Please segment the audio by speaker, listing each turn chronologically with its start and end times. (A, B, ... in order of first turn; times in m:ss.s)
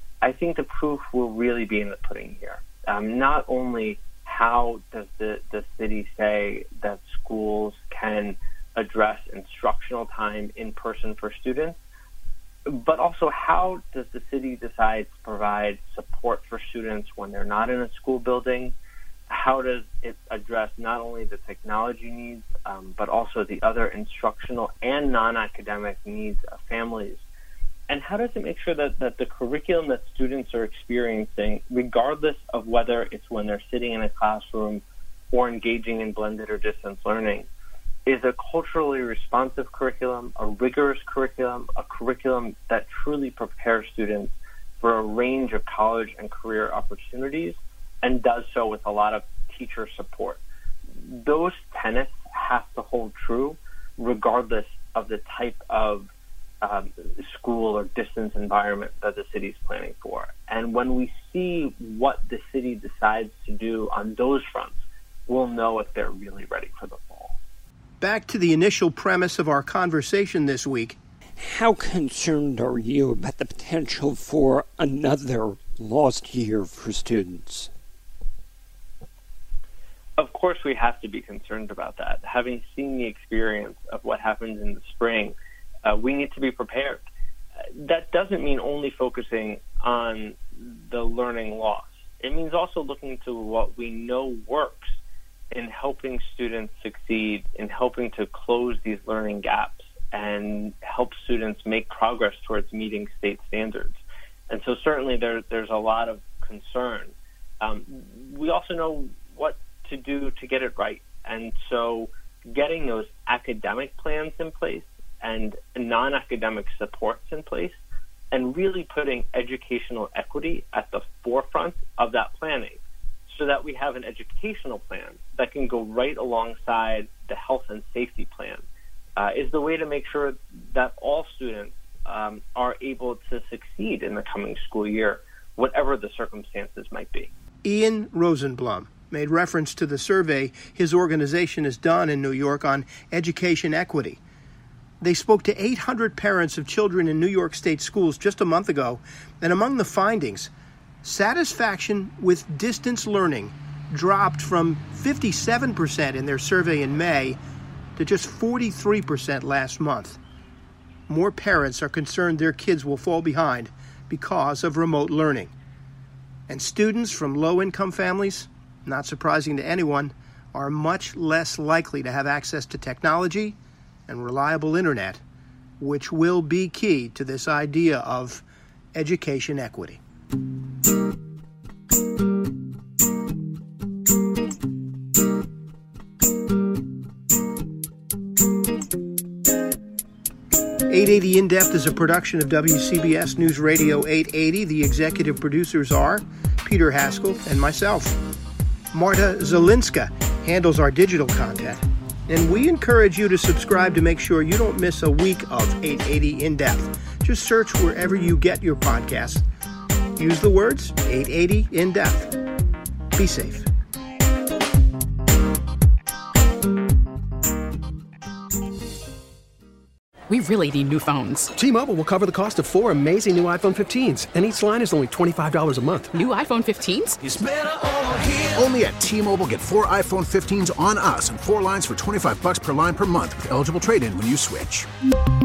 0:00.2-0:11.8 A
0:12.7-0:18.8 A
0:19.3-0:27.2 A
0:27.9-0:37.5 A
0:38.1-0:50.4 A
0:50.9-0:56.1 A
0:56.6-1:04.8 A
1:05.3-1:07.4 A
1:08.0-1:11.0 B
1:11.4-1:17.7 C
1:20.2-1:27.0 A
1:27.8-1:35.0 A
1:35.5-1:57.8 A
1:58.3-2:08.6 A
2:09.2-2:17.3 A
2:17.6-2:24.2 B
2:25.0-2:30.5 B
2:31.0-2:37.4 B
2:38.0-2:40.2 B
2:41.1-2:45.5 B
2:46.5-2:53.6 B
2:54.1-2:55.2 B
2:55.8-3:00.0 B
3:10.9-3:18.2 B
3:18.9-3:29.4 B
3:30.2-3:32.4 B
3:33.1-3:33.7 B
3:40.3-3:41.5 D
3:41.6-3:46.1 E
3:46.1-3:47.2 D
3:47.2-3:54.9 F